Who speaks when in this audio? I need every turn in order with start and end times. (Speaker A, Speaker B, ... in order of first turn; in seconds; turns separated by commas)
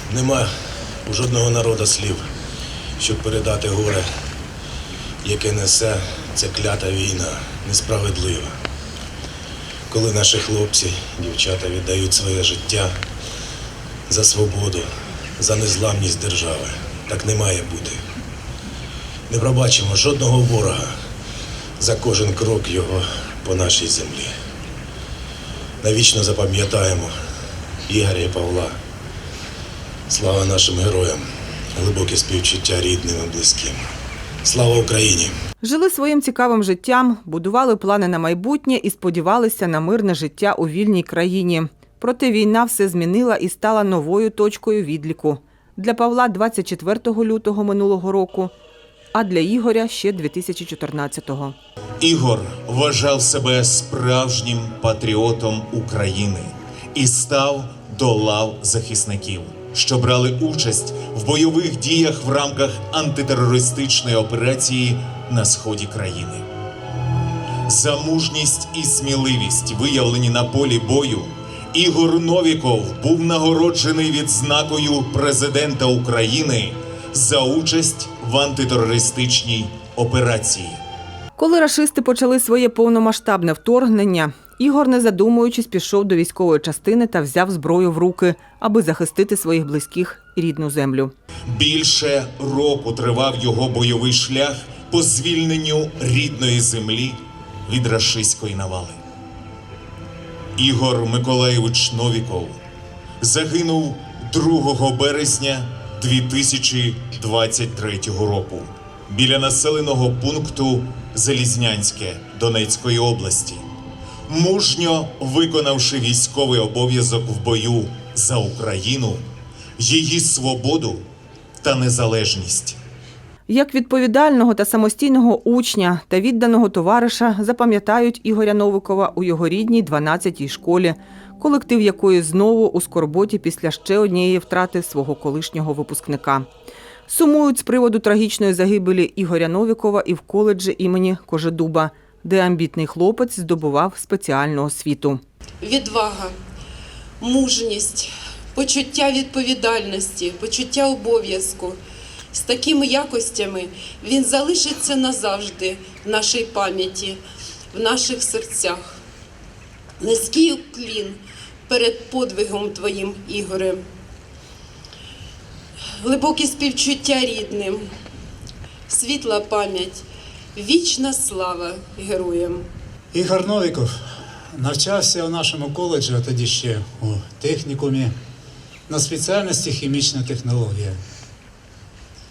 Speaker A: 0.1-0.5, Speaker A: 1.1-2.2, Speaker A: 3.0-4.1, Speaker A: 5.2-8.6, Speaker A: 9.9-13.0, Speaker A: 14.1-18.0, Speaker A: 19.3-20.9, Speaker A: 21.8-24.3, Speaker A: 25.8-27.1, Speaker A: 27.9-28.8, Speaker A: 30.1-33.8, Speaker A: 34.4-35.3, Speaker B: 35.6-48.5, Speaker B: 49.1-51.5, Speaker C: 52.0-66.5, Speaker C: 67.7-80.8, Speaker B: 81.4-91.1, Speaker C: 91.5-99.0, Speaker C: 100.6-102.6, Speaker C: 103.2-113.6, Speaker C: 114.3-119.2, Speaker C: 119.8-121.0, Speaker C: 121.6-122.8, Speaker B: 123.5-136.5, Speaker B: 137.1-145.2, Speaker D: 145.6-146.3, Speaker D: 147.2-151.8, Speaker D: 152.4-157.2, Speaker D: 157.7-158.9, Speaker D: 160.0-163.8, Speaker D: 166.1-167.8, Speaker D: 168.9-170.0, Speaker D: 170.6-172.6, Speaker E: 173.1-173.9, Speaker E: 174.6-178.1, Speaker E: 178.9-181.0